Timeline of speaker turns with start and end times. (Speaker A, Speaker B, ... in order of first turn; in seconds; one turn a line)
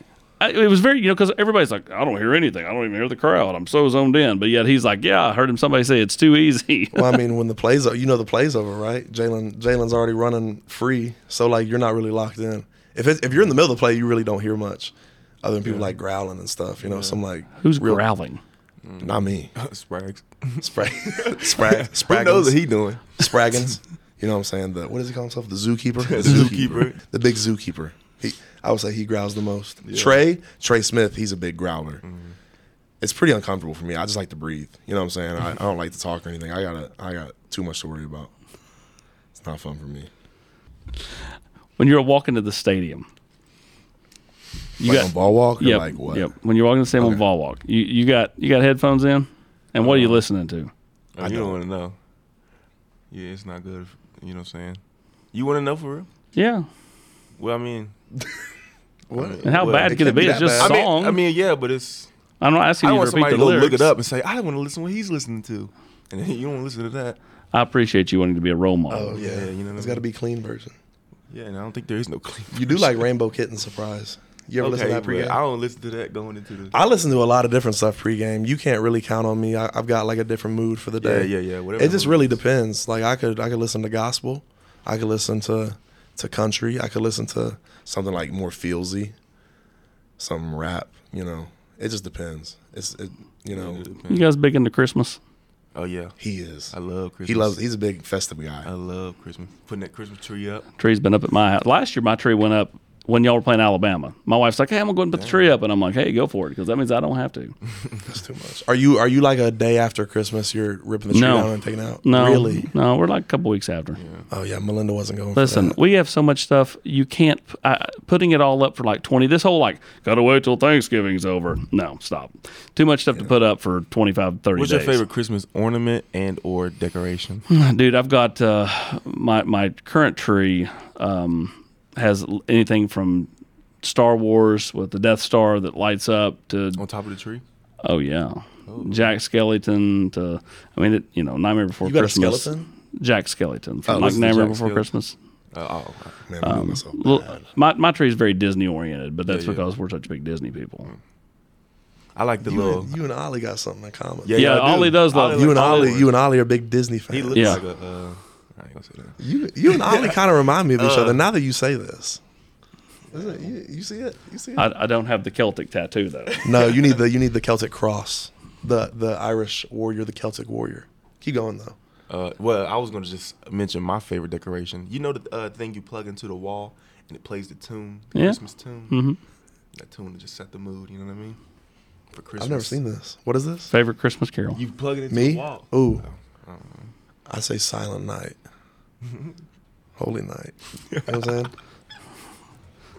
Speaker A: 0.4-7.2
Speaker B: 6.9-18.0
Speaker C: 15.6-15.9
Speaker C: 16.8-17.2
Speaker A: 17.6-18.4
Speaker C: 18.8-23.2
Speaker B: 19.0-19.5
Speaker B: 20.6-22.6
Speaker B: 23.2-32.0
Speaker C: 26.0-27.0
Speaker C: 29.8-30.2
Speaker C: 32.0-32.4
Speaker B: 33.0-38.3
Speaker B: 39.3-40.1
Speaker A: 41.8-43.1
Speaker A: 44.8-50.7
Speaker B: 44.8-46.3
Speaker B: 47.0-47.2
Speaker C: 49.8-50.2
Speaker C: 51.1-52.0
Speaker B: 51.2-51.6
Speaker C: 53.1-54.8
Speaker C: 55.3-56.1
Speaker A: 56.3-56.6
Speaker C: 57.4-58.0
Speaker B: 59.1-60.7
Speaker C: 59.1-62.1
Speaker A: 59.4-61.2
Speaker A: 62.4-63.9
Speaker C: 62.8-67.2
Speaker A: 67.5-69.2
Speaker B: 68.9-70.7
Speaker C: 69.2-70.0
Speaker C: 71.3-73.1
Speaker B: 72.5-75.4
Speaker C: 74.6-76.8
Speaker B: 76.7-89.1
Speaker C: 81.0-82.4
Speaker B: 90.2-93.8
Speaker C: 93.5-94.3
Speaker A: 94.1-95.2
Speaker C: 95.7-96.2
Speaker B: 96.2-98.7
Speaker C: 96.7-97.6
Speaker C: 98.6-100.7
Speaker A: 100.8-107.5
Speaker C: 105.2-105.4
Speaker B: 108.0-112.7
Speaker A: 111.1-114.0
Speaker C: 114.0-114.2
Speaker B: 114.3-115.8
Speaker A: 115.3-125.0
Speaker C: 124.5-127.5
Speaker A: 127.5-133.3
Speaker A: 133.8-136.8
Speaker C: 136.8-137.4
Speaker A: 137.8-145.1
Speaker C: 138.7-139.1
Speaker B: 141.8-142.7
Speaker B: 143.8-144.2
Speaker C: 143.9-144.9
Speaker C: 145.5-146.2
Speaker B: 146.3-147.4
Speaker A: 146.4-150.9
Speaker C: 149.3-149.6
Speaker C: 152.1-152.9
Speaker B: 152.4-157.6
Speaker C: 154.2-156.1
Speaker A: 154.3-155.9
Speaker C: 157.1-160.2
Speaker A: 157.3-157.6
Speaker B: 159.2-162.2
Speaker C: 160.8-161.2
Speaker C: 163.1-163.5
Speaker B: 163.1-164.7
Speaker A: 164.6-166.4
Speaker C: 166.4-166.8
Speaker B: 166.4-171.8
Speaker C: 172.1-179.0
Speaker A: 178.9-179.2
Speaker C: 179.7-181.4
Speaker C: 182.1-182.8
Speaker B: 182.4-183.7
Speaker A: 183.7-184.6
Speaker C: 184.5-186.9
Speaker B: 185.1-186.0
Speaker B: 187.3-188.4
Speaker B: 190.0-191.5
Speaker C: 190.9-191.2